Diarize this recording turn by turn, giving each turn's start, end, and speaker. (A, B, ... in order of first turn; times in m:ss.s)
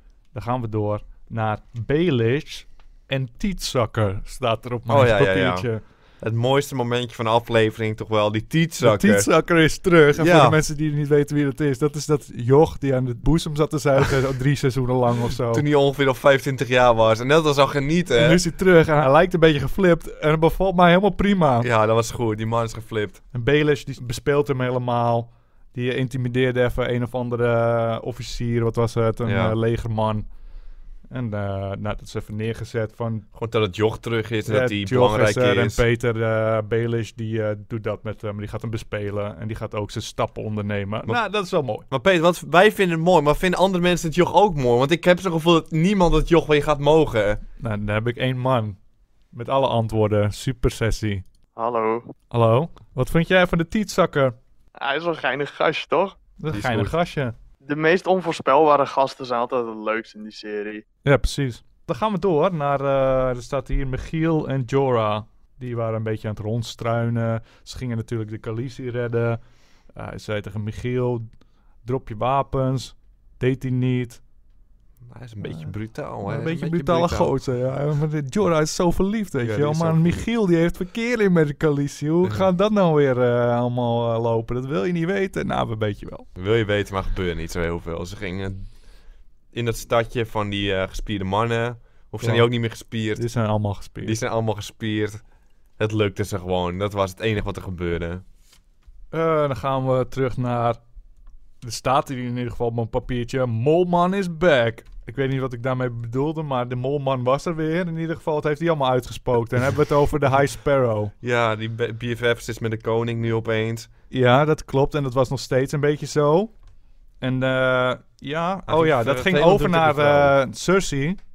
0:00.3-0:05.8 A
0:04.9-0:05.7 B
0:06.2-0:09.3 B
0:08.8-0:15.6 A
0:10.1-0:10.6 B
0:15.5-0:18.4 B
0:18.2-0:21.7 A
0:21.6-0:23.2 B
0:23.3-0:30.3 A
0:29.2-0:29.6 B
0:31.1-0:33.3 A
0:33.3-0:35.8 B
0:34.5-0:41.9 A
0:41.9-0:47.4 B
0:47.6-0:48.8 A
0:49.3-0:51.2 A
0:51.6-0:52.1 C
0:52.3-0:54.4 A
0:54.8-0:56.2 C
0:56.4-0:57.3 A
0:56.5-0:56.9 B
0:57.6-1:00.8 C
1:01.0-1:09.4 A
1:10.0-1:11.2 A
1:11.8-1:14.2 A
1:15.1-1:17.3 B
1:15.4-1:26.3 A
1:19.4-1:20.2 B
1:22.2-1:22.5 B
1:26.4-1:28.7 B
1:29.5-1:33.3 B
1:32.2-1:32.5 A
1:33.2-1:34.2 A
1:34.0-1:35.2 B
1:35.8-1:38.2 B
1:39.1-1:40.8 A
1:41.6-1:51.1 A
1:51.2-1:53.9 B
1:54.1-1:56.5 A
1:57.2-2:01.2 A
1:58.7-2:00.4 B